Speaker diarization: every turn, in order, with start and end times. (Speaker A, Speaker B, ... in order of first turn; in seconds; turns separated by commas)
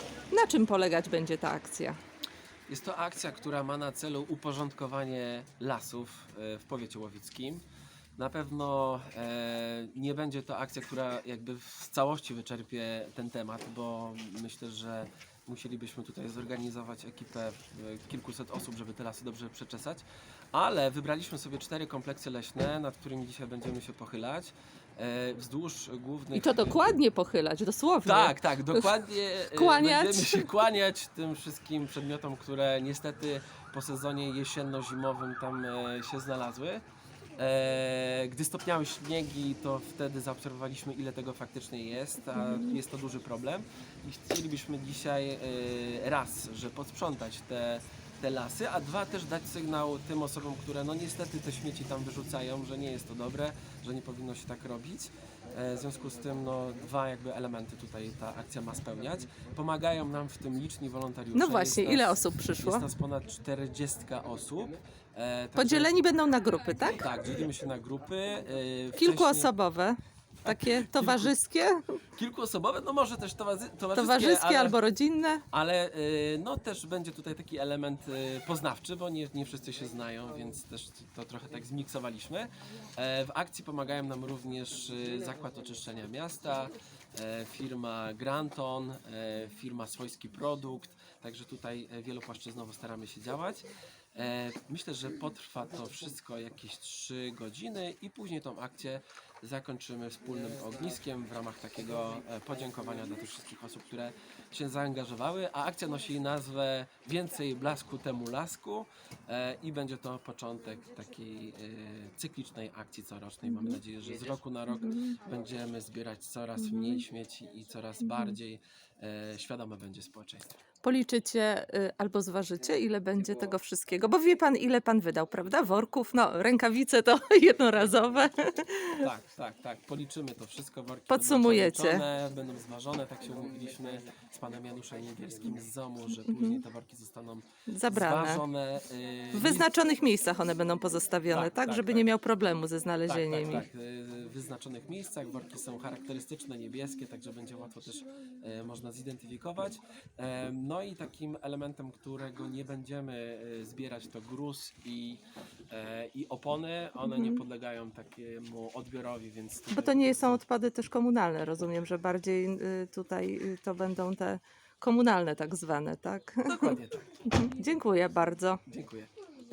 Speaker A: 0.3-2.0, Speaker B: 2.7-7.6, Speaker B: 8.2-20.0, Speaker B: 20.5-26.8, Speaker A: 26.3-28.9, Speaker B: 28.0-36.8, Speaker A: 29.5-30.5, Speaker B: 37.4-65.9, Speaker A: 42.4-42.8, Speaker A: 61.3-62.9, Speaker A: 65.5-67.1, Speaker B: 66.8-69.5, Speaker A: 69.0-72.0, Speaker B: 70.5-71.3, Speaker B: 72.2-74.8, Speaker A: 74.0-75.4, Speaker B: 75.5-120.5, Speaker A: 113.4-113.8, Speaker A: 114.7-115.2, Speaker A: 116.6-117.0, Speaker A: 118.0-118.3, Speaker A: 120.8-129.1, Speaker B: 129.0-139.7, Speaker A: 131.1-132.0, Speaker A: 136.3-136.6, Speaker A: 137.7-138.4, Speaker A: 139.3-143.7, Speaker B: 141.3-142.1, Speaker B: 143.1-160.4, Speaker A: 157.0-157.4, Speaker A: 159.7-168.6, Speaker B: 166.5-167.0, Speaker B: 168.7-169.1